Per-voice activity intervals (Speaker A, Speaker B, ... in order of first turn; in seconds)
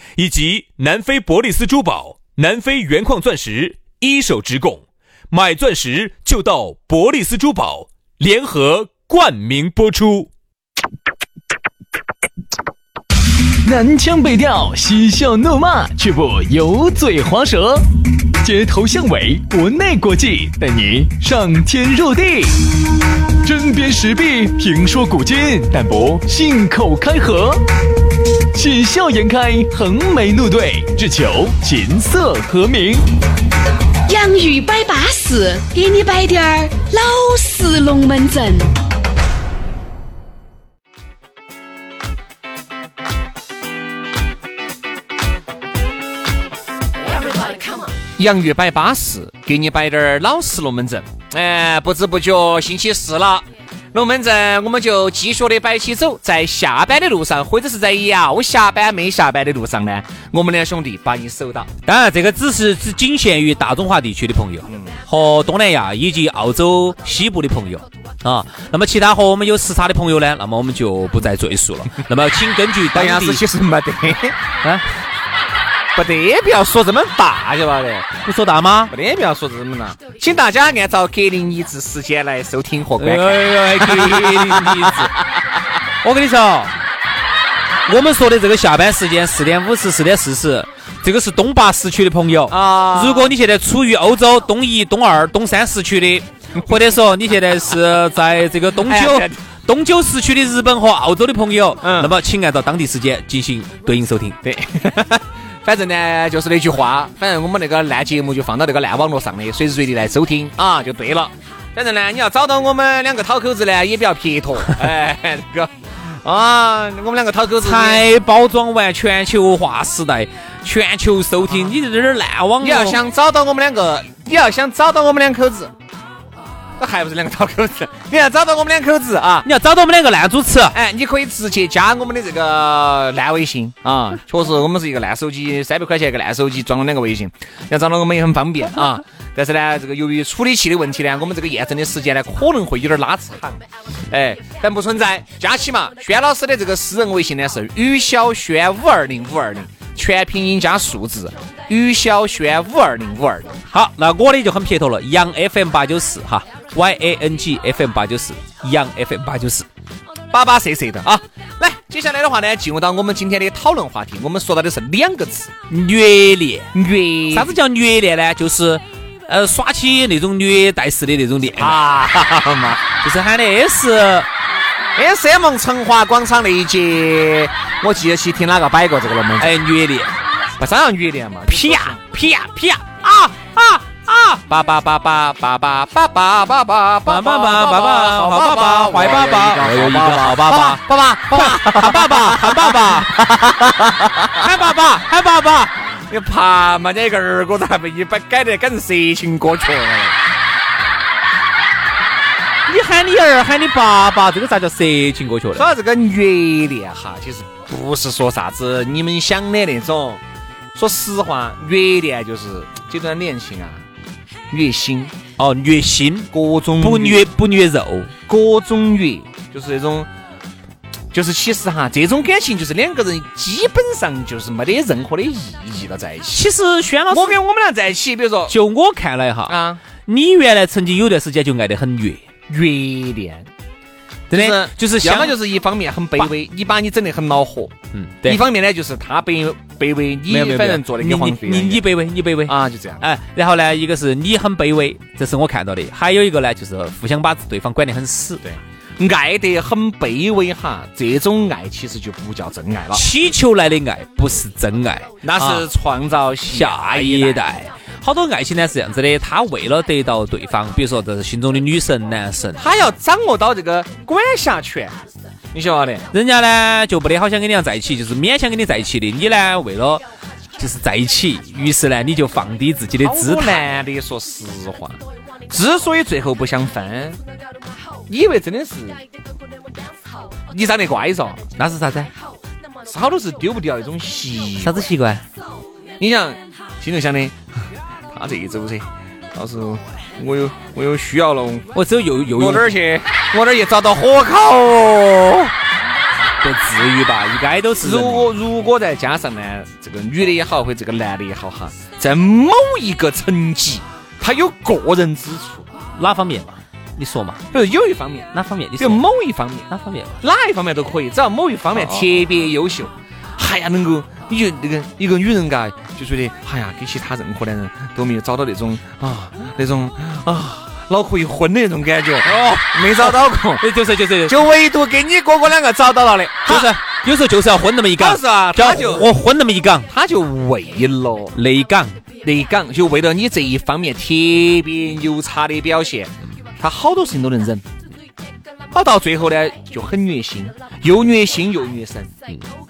Speaker A: 0.2-10.3
Speaker B: 13.6-17.9, 18.4-22.7, 23.4-27.6, 28.5-33.1
Speaker C: 34.1-38.7
Speaker D: 48.2-61.7, 64.7-65.0, 72.9-74.4, 76.0-78.1, 78.9-85.4, 92.5-93.3, 98.8-99.4, 101.8-102.1, 104.4-115.7, 116.2-118.0, 121.4-121.8, 122.6-125.7, 126.8-129.5, 130.7-153.6, 160.3-165.5, 166.7-167.6, 171.5-172.8, 175.0-179.5, 180.6-182.0, 184.5-194.3, 196.1-200.2, 205.5-210.2, 210.7-213.8, 214.5-215.2, 216.3-217.3, 218.3-220.1, 221.1-226.5, 227.1-228.6, 229.5-229.8, 232.5-233.5, 234.3-237.7, 238.2-241.8, 242.5-243.1, 248.4-253.0, 255.2-257.4, 262.6-264.9, 265.5-266.1, 273.0-277.2, 278.1-279.0, 280.5-281.5, 282.9-284.9, 286.0-287.4, 288.1-291.7, 292.3-295.5, 297.8-305.7, 307.5-323.6, 324.2-326.8, 328.0-329.1, 329.9-331.4, 332.2-337.6, 338.7-342.1
Speaker E: 61.8-73.4, 78.2-79.0, 83.0-85.2, 86.0-86.7, 87.9-104.4, 117.6-123.0, 129.4-130.8, 153.7-159.7, 165.7-166.7, 167.3-171.8, 173.0-174.3, 179.4-180.2, 181.5-184.4, 187.1-193.6, 194.3-195.7, 202.7-205.7, 215.4-218.1, 226.3-227.4, 228.5-232.2, 234.3-235.4, 237.9-238.4, 240.3-248.4, 252.9-255.7, 256.5-262.6, 266.1-270.0, 270.6-273.6, 281.6-282.1, 284.6-285.2, 291.7-292.7, 296.4-298.3, 306.0-307.4, 308.3-309.0, 309.7-310.2, 311.7-312.1, 322.2-324.4, 326.4-329.9, 331.3-332.0